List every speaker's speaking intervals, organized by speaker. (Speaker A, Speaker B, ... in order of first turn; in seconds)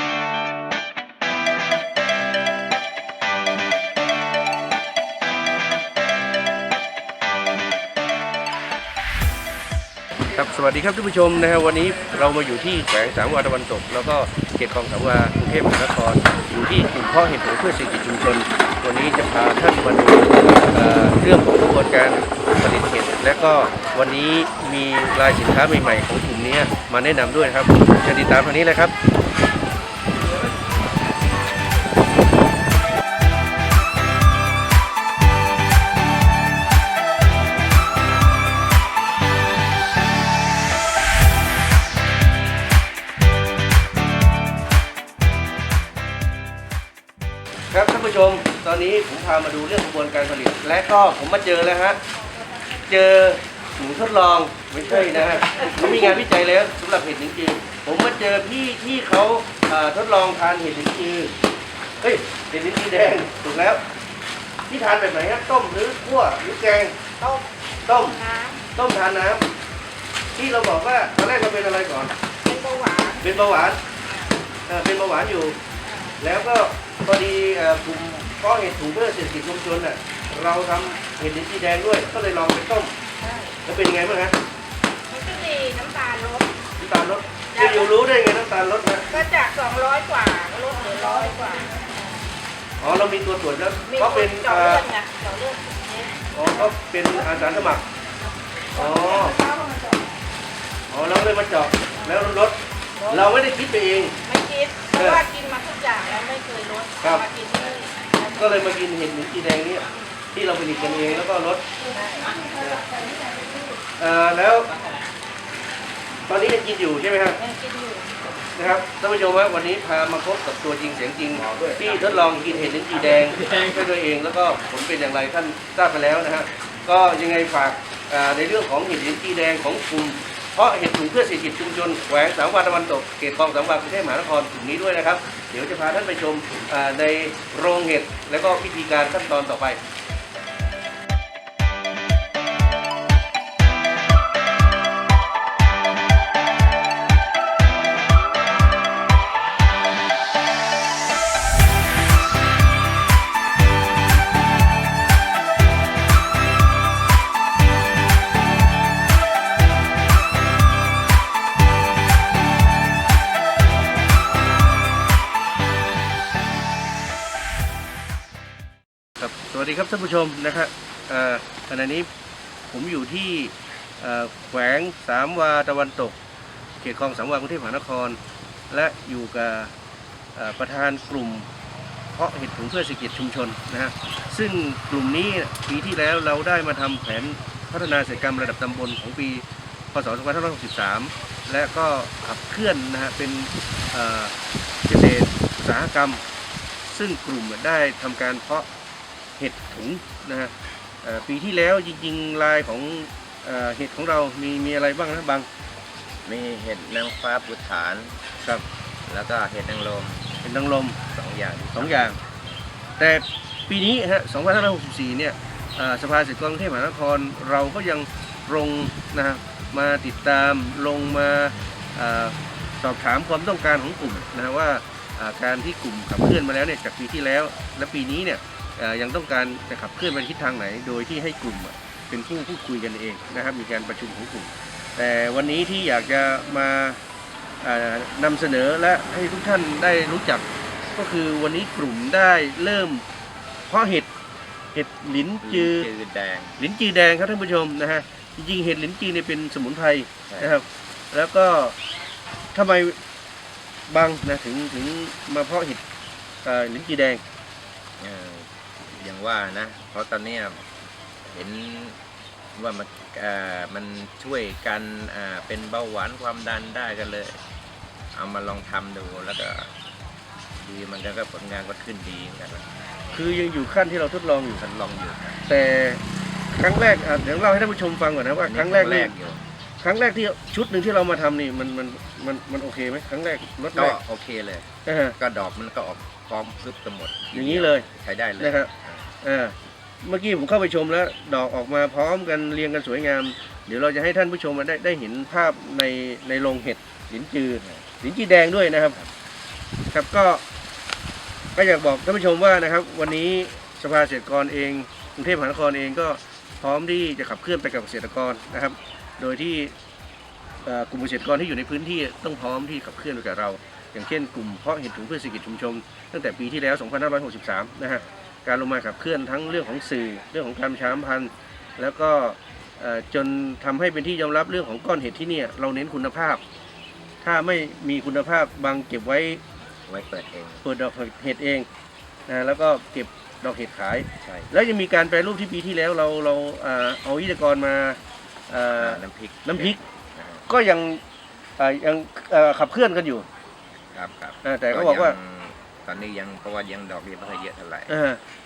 Speaker A: 10.3-28.9, 47.7-52.0, 52.9-61.3, 62.0-63.8, 64.7-67.0, 67.8-68.2, 68.7-69.4, 70.3-72.1, 73.2-73.8, 74.7-75.6, 76.2-82.9, 83.6-84.3, 86.8-89.0, 92.8-94.8, 96.3-97.8, 98.7-99.4, 100.9-104.2, 104.9-105.2, 108.2-111.6, 112.5-112.8, 114.0-114.7, 116.3-117.4, 118.5-139.8, 169.2-172.1, 172.7-176.2, 176.8-178.2, 178.7-179.7, 180.3-181.5, 182.1-194.3, 194.8-196.2, 196.8-198.7, 199.4-200.5, 201.0-205.5, 210.4-211.0, 211.8-212.2, 213.0-237.0, 237.6-243.0, 243.7-244.1, 244.7-245.9, 246.6-251.8, 252.5-253.0, 253.9-255.8, 256.4-257.2, 273.1-274.6, 275.5-279.1, 279.8-284.0, 284.9-285.1, 287.3-287.9, 288.4-288.7, 289.2-299.0, 299.9-300.4, 301.5-309.7, 310.6-326.4, 327.2-329.4, 330.6-331.7, 332.3-339.8, 340.5-341.0, 341.6-343.2, 344.4-345.2, 347.9-348.2
Speaker B: 67.2-67.5, 68.0-68.6, 72.4-73.2, 75.8-76.1, 83.2-83.5, 85.1-86.5, 87.5-87.9, 89.1-92.0, 93.9-96.1, 98.9-99.7, 104.2-108.2, 111.9-112.3, 117.4-118.2
Speaker C: 206.2-208.2, 209.1-210.4, 211.1-212.3, 245.4-246.6, 250.3-250.5, 258.0-260.6, 261.2-262.0, 262.5-267.4, 268.1-269.7, 270.6-272.7, 274.6-275.4, 278.4-279.4, 283.7-289.1, 329.9-330.6, 334.2-334.5, 338.7-340.4, 343.9-347.9